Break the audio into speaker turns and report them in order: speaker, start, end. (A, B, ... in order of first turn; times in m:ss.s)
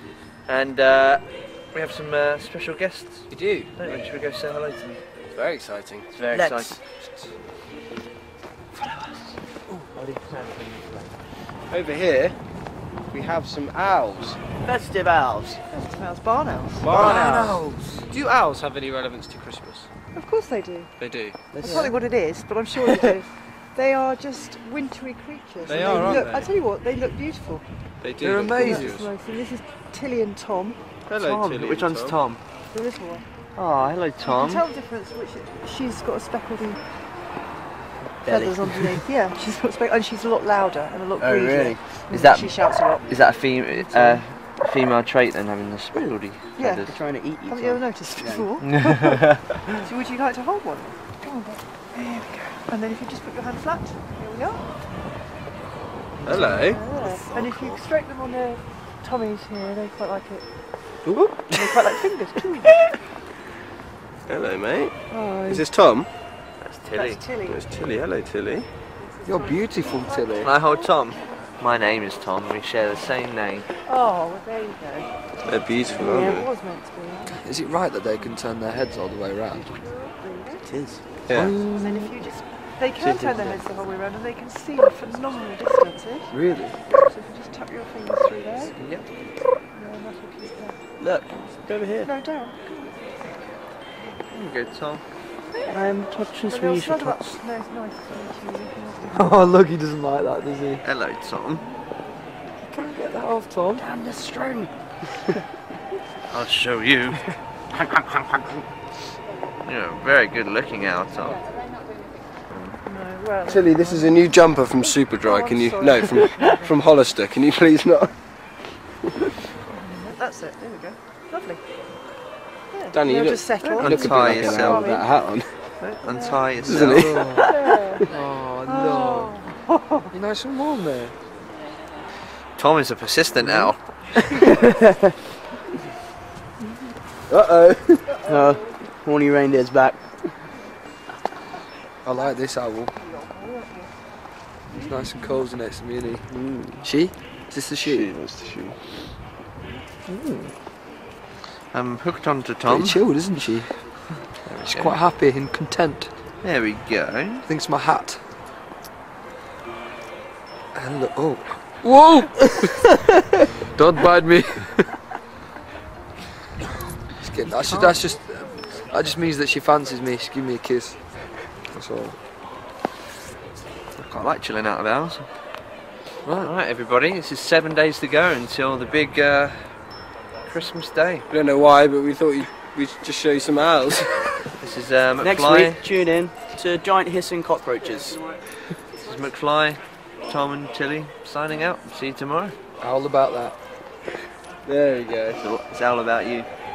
0:00.5-0:05.0 A
0:03.3-0:03.7 B
0:05.3-0:06.3 B
0:06.2-0:06.8 A
0:06.3-0:06.7 C
0:08.8-0:09.2 A
0:09.9-0:11.1 A
0:11.7-0:12.4 B
0:13.1-0:14.4 B
0:14.6-0:15.6 C
0:15.7-0:17.0 D
0:16.8-0:19.9 B
0:16.9-0:17.6 C
0:20.1-0:20.9 D
0:21.0-0:21.5 B
0:21.5-0:22.0 C
0:21.6-0:27.6 D
0:25.7-0:26.5 B
0:28.0-0:29.1 B
0:28.2-0:29.1 E
0:28.6-0:30.8 D
0:31.1-0:32.4 A
0:31.1-0:32.2 B
0:32.7-0:33.3 D
0:33.6-0:34.6 A
0:34.3-0:36.8 D
0:38.2-0:39.0 C
0:38.2-0:43.1 D
0:41.2-0:41.8 C
0:42.1-0:47.0 A
0:43.8-0:44.2 D
0:46.6-0:54.6 D
0:46.9-0:48.5 C
0:48.6-0:49.3 A
0:56.2-0:57.7 A
0:56.2-0:56.8 B
0:56.5-1:00.5 D
1:01.1-1:01.6 B
1:01.5-1:02.8 D
1:04.3-1:06.1 B
1:05.2-1:05.6 D
1:06.6-1:07.2 A
1:06.9-1:07.6 D
1:07.4-1:08.7 B
1:09.2-1:10.5 E
1:09.4-1:10.7 D
1:10.4-1:13.7 A
1:13.8-1:15.1 D
1:15.4-1:16.5 B
1:15.9-1:16.4 C
1:15.9-1:17.4 D
1:17.3-1:19.8 E
1:19.5-1:20.7 D
1:20.6-1:22.1 C
1:21.3-1:21.6 B
1:21.3-1:21.7 E
1:21.7-1:28.8 D
1:26.3-1:26.8 E
1:28.8-1:29.1 A
1:29.7-1:30.8 D
1:31.0-1:32.1 C
1:32.0-1:33.0 D
1:34.3-1:35.0 A
1:35.7-1:37.4 C
1:36.4-1:39.4 D
1:39.1-1:40.8 E
1:40.8-1:41.6 A
1:42.6-1:43.8 E
1:43.8-1:45.4 C
1:46.3-1:47.4 A
1:47.9-1:48.4 B
1:49.6-1:51.4 A
1:52.5-1:52.8 A
1:52.8-1:54.2 D
1:53.4-1:58.2 B
1:54.8-1:56.8 D
1:59.7-2:01.6 D
2:02.7-2:05.1 D
2:02.9-2:05.6 B
2:03.7-2:04.9 A
2:05.8-2:06.5 D
2:05.9-2:07.3 A
2:06.6-2:07.4 B
2:06.7-2:09.4 E
2:07.4-2:08.1 D
2:08.6-2:10.1 D
2:10.1-2:11.2 E
2:12.6-2:14.2 A
2:13.4-2:13.7 E
2:14.4-2:15.1 C
2:17.3-2:18.3 B
2:18.2-2:20.1 C
2:22.0-2:23.0 E
2:24.7-2:26.3 E
2:26.3-2:26.9 C
2:26.8-2:28.1 E
2:27.8-2:28.8 B
2:30.1-2:30.5 E
2:31.7-2:33.0 A
2:32.6-2:33.8 E
2:34.4-2:35.0 A
2:34.7-2:36.1 E
2:36.4-2:37.4 A
2:37.4-2:38.2 E
2:40.8-2:42.9 E
2:43.7-2:44.8 E
2:47.2-2:51.0 E
2:47.6-2:47.9 A
2:51.7-2:52.2 E
2:54.0-2:55.3 A
2:56.2-2:56.5 E
2:56.4-2:59.8 A
3:00.4-3:01.3 A
3:01.3-3:04.4 B
3:04.6-3:05.8 A
3:05.2-3:08.2 C
3:09.0-3:12.6 A
3:12.8-3:13.6 E
3:14.6-3:15.4 B
3:15.4-3:16.5 A